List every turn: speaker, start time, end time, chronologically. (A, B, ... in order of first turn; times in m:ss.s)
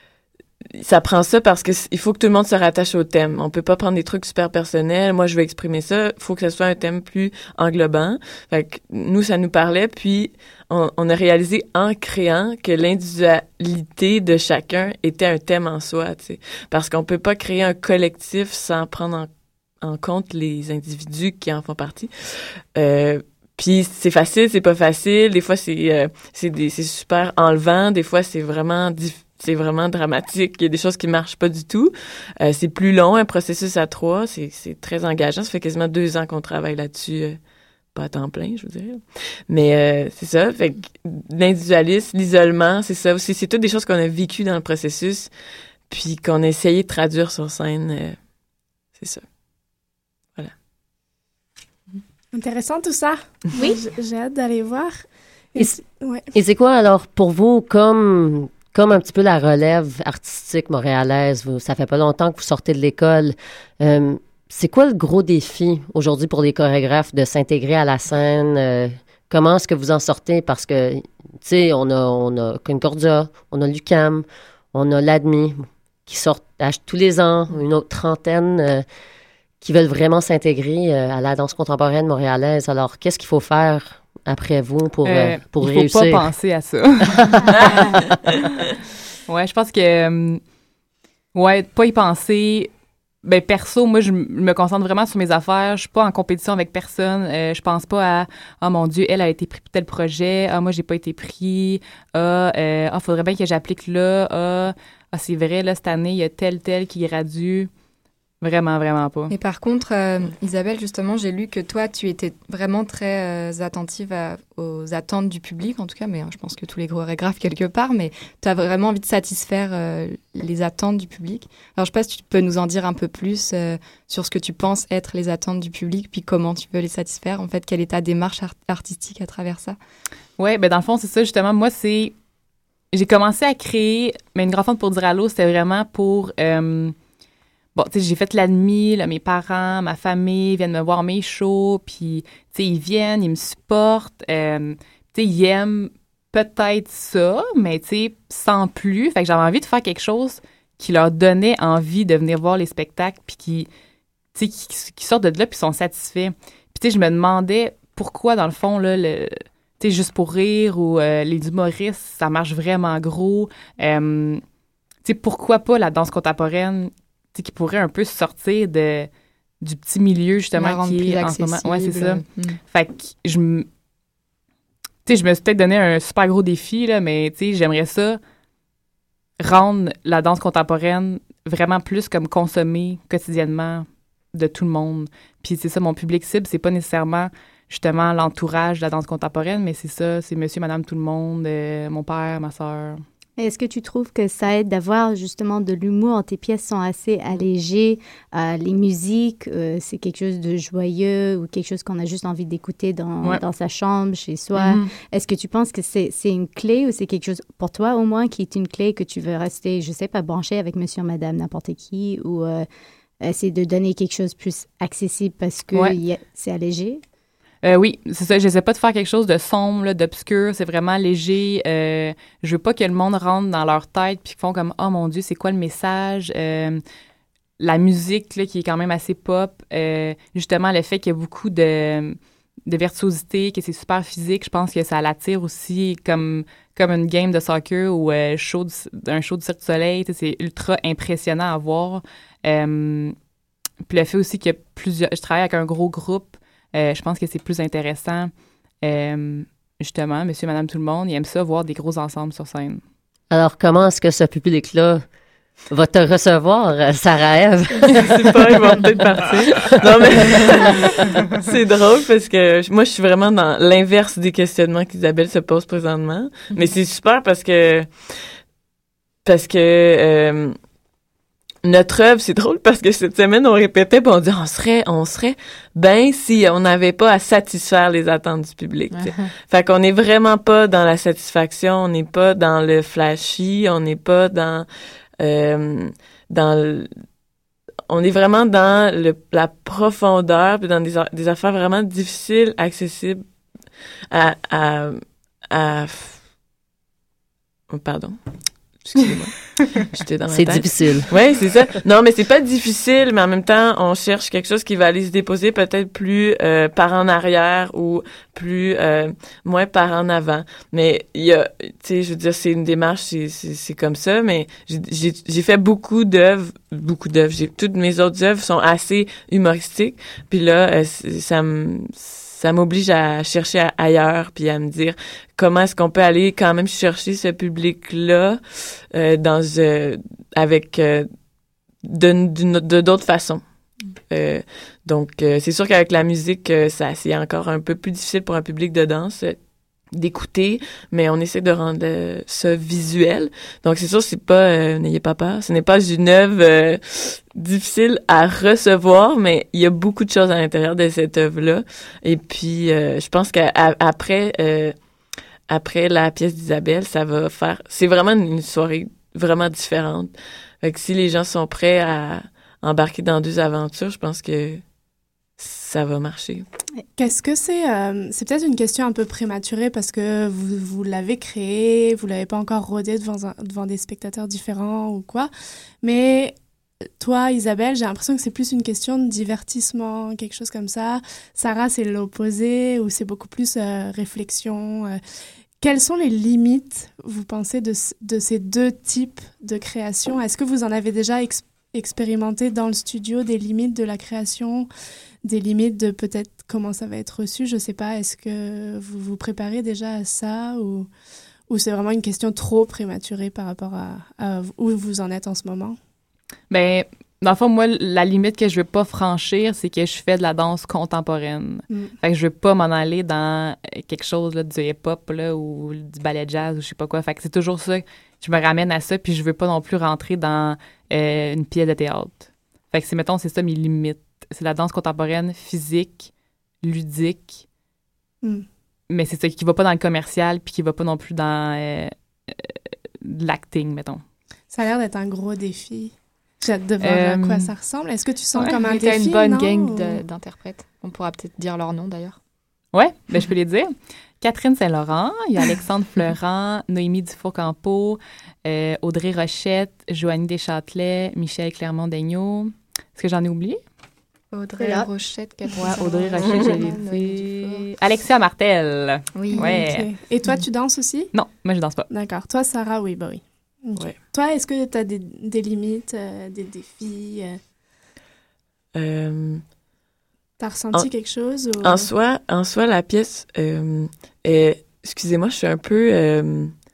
0:00.8-0:19.3 A
0:19.8-0:37.4 A
0:37.9-0:45.3 A
0:45.9-0:48.2 A
0:48.9-0:49.2 A
0:52.3-0:56.3 B
0:56.3-1:18.8 C
1:19.6-1:26.3 C
1:25.0-1:27.7 D
1:27.3-1:28.0 C
1:29.3-1:30.4 D
1:31.3-1:32.7 D
1:33.2-1:47.7 D
1:48.4-1:49.3 D
1:49.3-2:09.8 E
2:10.4-2:12.2 D
2:12.9-2:17.0 D
2:17.7-2:33.7 D
2:34.3-2:44.4 D
2:45.0-2:53.7 D
2:50.6-2:52.6 E
2:55.0-2:58.2 D
2:59.4-3:13.0 D
3:13.4-3:32.6 F
3:24.6-3:24.9 E
3:33.2-3:37.0 F
3:35.7-3:36.0 D
3:37.6-3:46.8 D
3:47.6-4:03.1 D
4:03.8-4:12.8 D
4:13.3-4:15.0 C
4:15.7-4:18.2 C
4:18.0-4:28.1 A
4:29.2-4:30.6 A
4:31.6-4:44.7 A
4:38.9-4:39.2 E
4:45.2-4:46.9 A
4:47.9-4:53.2 A
4:54.1-4:55.0 A
4:55.5-4:56.2 A
4:57.7-4:58.2 A
4:58.7-5:31.1 A
5:00.3-5:01.1 C
5:31.8-5:33.4 A
5:34.1-5:39.4 A
5:39.9-5:54.7 A
5:55.5-6:00.1 A
6:00.6-6:04.6 A
6:05.4-6:06.4 A
6:07.0-6:15.3 B
6:15.8-6:16.4 B
6:17.0-6:25.0 B
6:25.6-6:34.7 B
6:35.2-6:40.9 B
6:41.5-6:45.8 B
6:46.5-7:07.5 D
7:08.9-7:14.0 D
7:14.5-7:20.0 B
7:16.8-7:17.5 D
7:18.6-7:22.2 E
7:22.7-7:23.7 D
7:24.2-7:33.6 D
7:34.3-7:37.7 E
7:35.5-7:39.9 D
7:39.1-7:39.7 E
7:39.3-7:41.1 B
7:41.1-7:41.9 D
7:41.9-7:47.4 B
7:48.7-7:49.4 A
7:50.4-7:51.9 B
7:51.6-7:56.5 A